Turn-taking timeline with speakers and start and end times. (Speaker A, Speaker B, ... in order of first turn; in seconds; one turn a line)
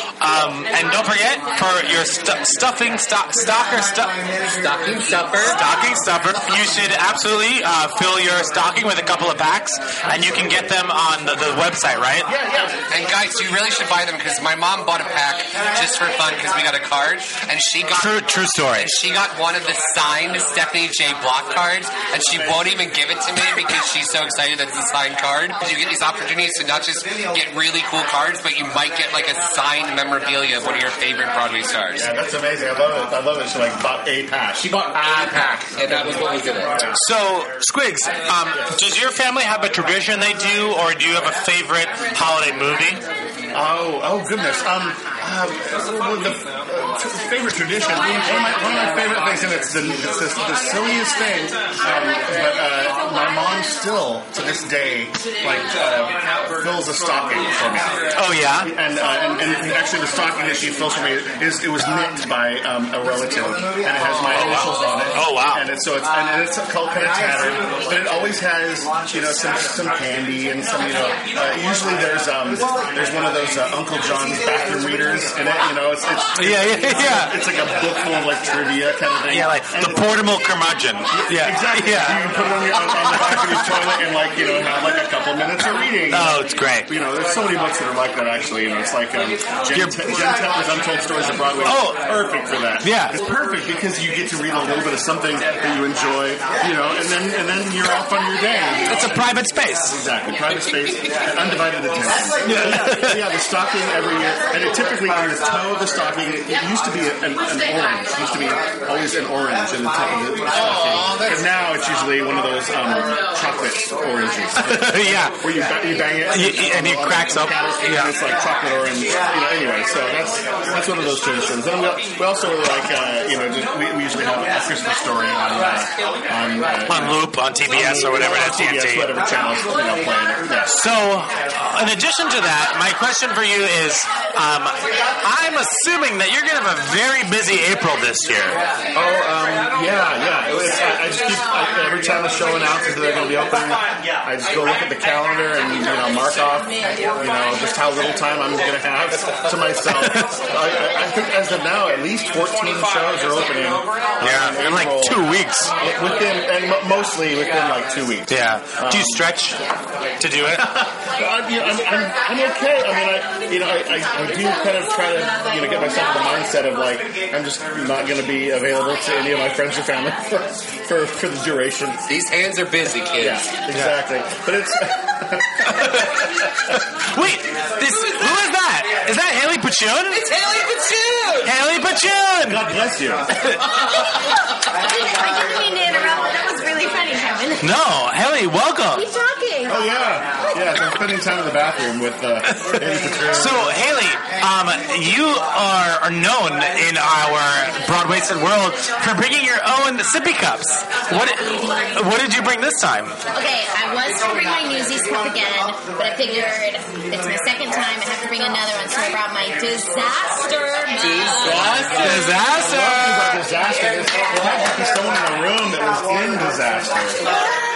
Speaker A: 0.2-4.2
Speaker B: 4.6-5.5
Speaker A: 5.3-12.3
Speaker C: 12.3-12.7
Speaker B: 12.9-18.1
Speaker A: 17.9-18.9
Speaker B: 18.8-32.1
Speaker C: 31.9-34.8
Speaker B: 34.7-36.8
Speaker A: 36.9-43.0
Speaker C: 43.5-58.0
Speaker A: 58.1-58.7
Speaker C: 58.6-80.3
Speaker A: 64.2-65.7
Speaker A: 76.3-77.3
Speaker A: 79.3-82.3
Speaker C: 81.2-99.2
Speaker A: 83.1-83.5
Speaker A: 86.1-86.9
Speaker A: 89.7-90.1
Speaker A: 91.6-92.0
Speaker A: 92.8-93.1
Speaker A: 98.8-99.9
Speaker C: 99.9-130.8
Speaker A: 102.4-103.2
Speaker A: 114.6-115.4
Speaker A: 116.3-118.1
Speaker A: 126.8-129.1
Speaker A: 130.7-138.6
Speaker C: 138.9-155.3
Speaker A: 149.9-150.2
Speaker A: 154.2-155.7
Speaker C: 155.8-159.2
Speaker A: 158.3-159.6
Speaker A: 160.2-160.7
Speaker C: 160.4-172.0
Speaker B: 172.1-173.4
Speaker C: 173.2-175.9
Speaker A: 177.1-180.2
Speaker A: 181.4-182.7
Speaker C: 182.4-183.3
Speaker D: 185.3-185.7
Speaker E: 185.7-187.5
Speaker A: 187.6-189.1
Speaker E: 189.0-189.7
Speaker C: 189.7-193.7
Speaker A: 193.2-203.2
Speaker D: 203.3-211.9
Speaker C: 211.3-217.3
Speaker A: 211.6-213.4